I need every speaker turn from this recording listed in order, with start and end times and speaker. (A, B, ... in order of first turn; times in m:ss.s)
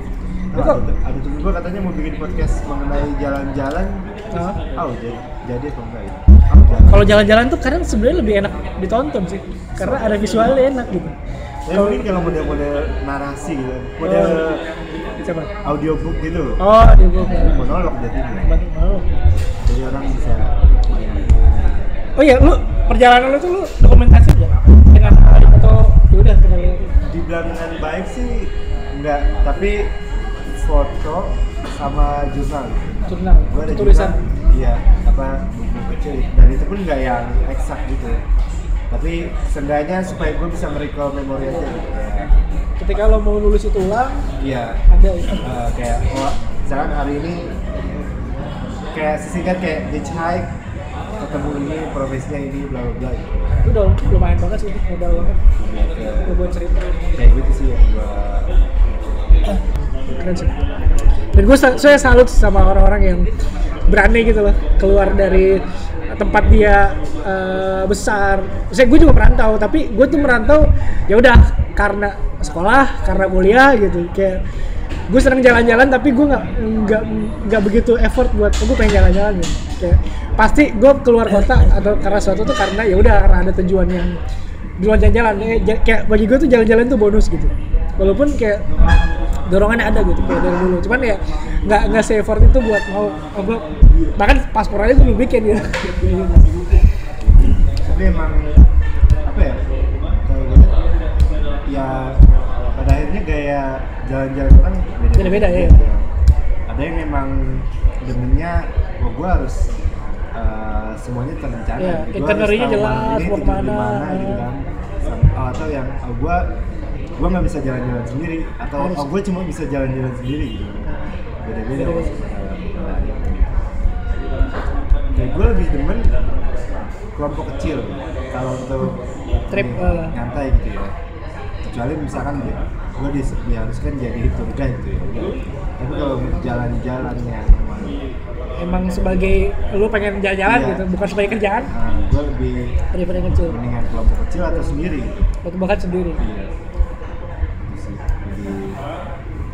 0:00.5-0:04.1 A
0:00.5-0:00.8 B
0:04.3-0:04.6 B
0:04.8-0:07.1 A
0:06.9-0:11.1 B
0:09.8-0:10.5 A
0:11.6-0:14.6 A
0:11.7-0:12.0 B
0:14.0-0:14.4 B
0:15.2-0:15.5 B
0:15.6-0:16.6 A
0:16.6-0:17.6 B
0:17.4-0:18.5 A
0:18.4-0:19.1 B
0:19.6-0:21.8 A
0:22.2-0:26.9 B
0:27.1-0:29.9 A
0:30.6-0:33.0 A
0:33.1-0:34.1 B
0:33.5-0:38.2 A
0:38.9-0:42.3 A
0:42.8-0:44.2 B
0:44.4-0:44.8 A
0:44.9-0:45.4 B
0:45.4-0:47.5 A
0:48.9-0:50.5 A
0:51.2-0:53.3 A
0:53.6-0:55.4 B
0:55.6-0:56.3 A
0:56.2-0:56.9 B
0:57.2-0:58.5 A
1:00.1-1:00.5 B
1:01.3-1:03.3 B
1:03.9-1:14.4 B
1:15.1-1:24.2 B
1:24.8-1:28.7 B
1:29.5-1:33.6 B
1:34.2-1:36.5 B
1:37.2-1:38.5 A
1:39.2-1:39.6 A
1:40.2-1:40.7 A
1:41.7-1:42.2 A
1:42.7-1:46.1 A
1:45.2-1:45.8 B
1:46.7-1:49.7 A
1:50.4-1:56.4 A
1:51.8-1:54.4 B
1:57.2-2:03.5 A
1:58.8-1:59.1 B
2:01.7-2:02.2 B
2:05.1-2:06.1 A
2:07.2-2:10.9 A
2:09.5-2:10.2 B
2:11.7-2:18.0 A
2:18.6-2:21.7 B
2:20.4-2:20.8 A
2:21.7-2:22.7 A
2:22.9-2:23.6 B
2:23.5-2:25.3 A
2:24.5-2:24.8 B
2:25.4-2:26.2 B
2:26.2-2:26.5 A
2:27.7-2:28.8 A